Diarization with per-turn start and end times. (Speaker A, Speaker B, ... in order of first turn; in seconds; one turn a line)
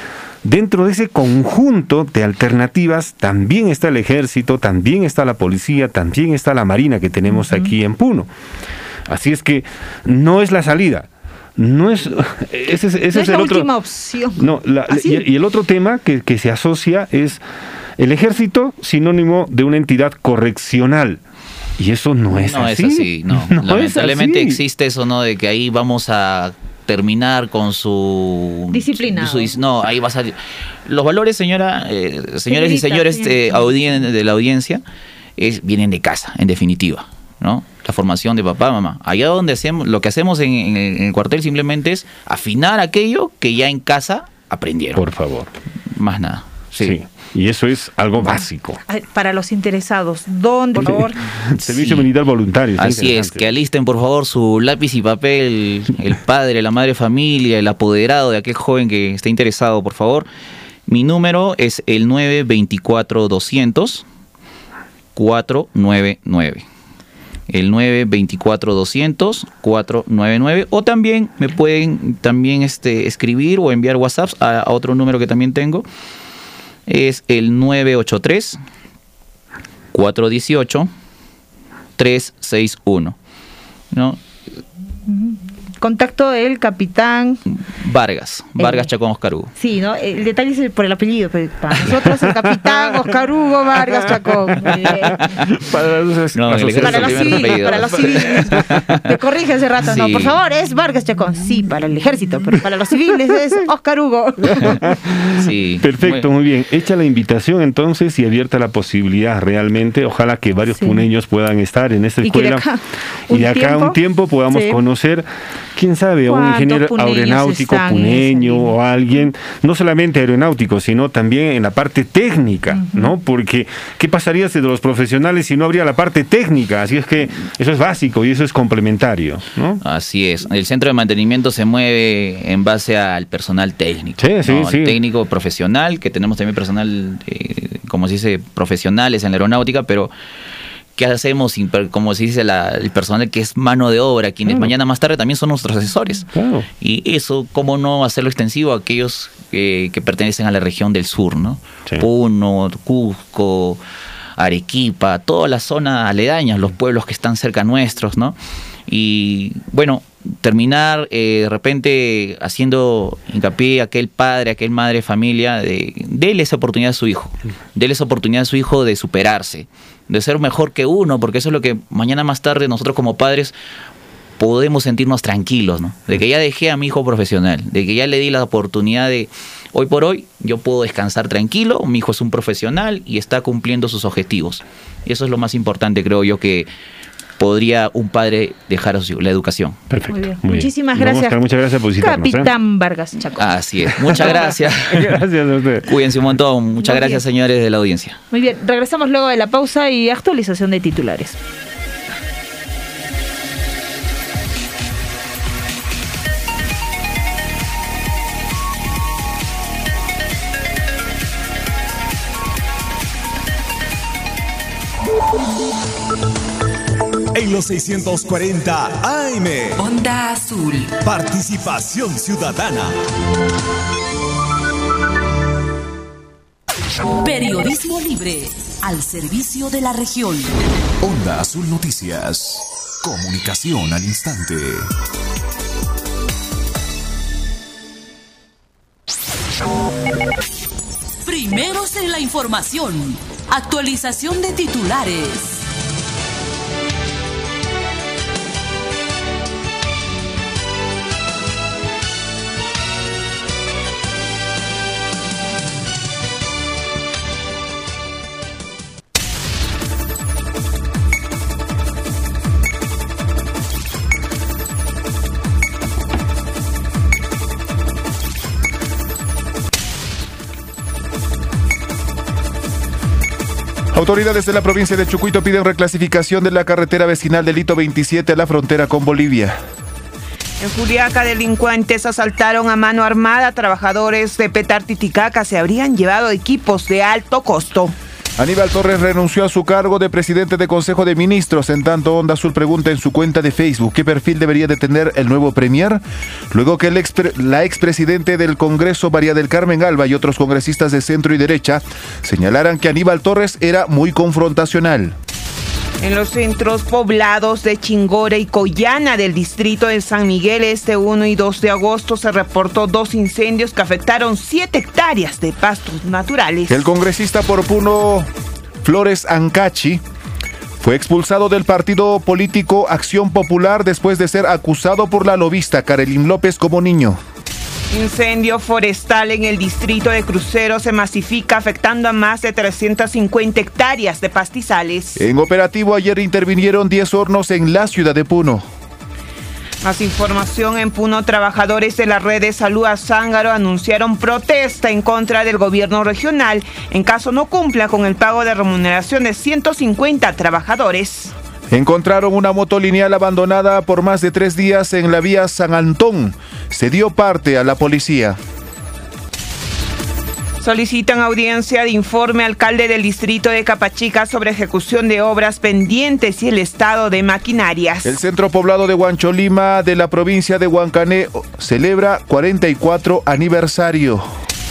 Speaker A: 0.4-8.3
Speaker B: 7.3-7.7
Speaker A: 9.1-13.7
Speaker B: 13.1-15.2
Speaker A: 14.4-17.4
Speaker A: 18.0-21.2
Speaker A: 21.8-24.6
Speaker C: 22.3-34.8
Speaker B: 28.7-29.5
Speaker B: 32.5-34.1
Speaker C: 35.4-45.0
Speaker A: 44.9-45.5
Speaker C: 45.9-47.0
Speaker A: 46.8-48.8
Speaker B: 48.9-51.2
Speaker A: 50.8-53.5
Speaker C: 51.6-52.0
Speaker C: 52.8-60.3
Speaker C: 60.9-64.0
Speaker C: 65.2-66.6
Speaker C: 67.5-75.8
Speaker C: 76.9-78.6
Speaker C: 79.9-80.9
Speaker C: 82.0-83.2
Speaker C: 83.9-84.2
Speaker B: 85.0-87.4
Speaker C: 87.5-89.5
Speaker B: 88.6-88.9
Speaker B: 89.5-95.2
Speaker A: 91.9-92.4
Speaker A: 94.0-98.6
Speaker C: 96.3-99.0
Speaker B: 96.8-104.9
Speaker C: 99.9-100.3
Speaker A: 104.5-112.6
Speaker C: 105.3-106.3
Speaker B: 110.7-111.0
Speaker B: 112.2-114.0
Speaker A: 113.3-129.8
Speaker B: 114.5-114.8
Speaker B: 116.3-118.8
Speaker B: 122.7-123.1
Speaker C: 129.8-140.1
Speaker A: 134.2-135.0
Speaker C: 140.9-146.3
Speaker A: 144.4-144.7
Speaker A: 146.3-146.7
Speaker C: 146.8-153.8
Speaker C: 154.4-158.4
Speaker C: 158.9-173.5
Speaker C: 174.4-186.7
Speaker C: 187.4-189.8
Speaker A: 189.9-192.5
Speaker B: 190.1-191.4
Speaker B: 192.0-194.5
Speaker C: 193.4-195.1
Speaker A: 194.1-195.9
Speaker C: 195.8-198.2
Speaker B: 196.8-197.2
Speaker B: 198.3-201.4
Speaker D: 217.3-219.8
Speaker E: 219.8-221.0
Speaker D: 221.0-223.0
Speaker E: 227.2-230.6
Speaker D: 231.0-234.9
Speaker E: 241.2-245.6
Speaker F: 273.9-279.6
Speaker G: 280.6-287.9
Speaker F: 288.4-305.1
Speaker G: 306.0-316.8
Speaker F: 316.7-318.3
Speaker F: 318.8-320.0
Speaker F: 320.8-327.2
Speaker G: 327.9-335.2
Speaker F: 335.1-338.6
Speaker G: 339.8-351.3
Speaker F: 351.7-358.4
Speaker G: 360.6-368.1
Speaker F: 368.0-374.3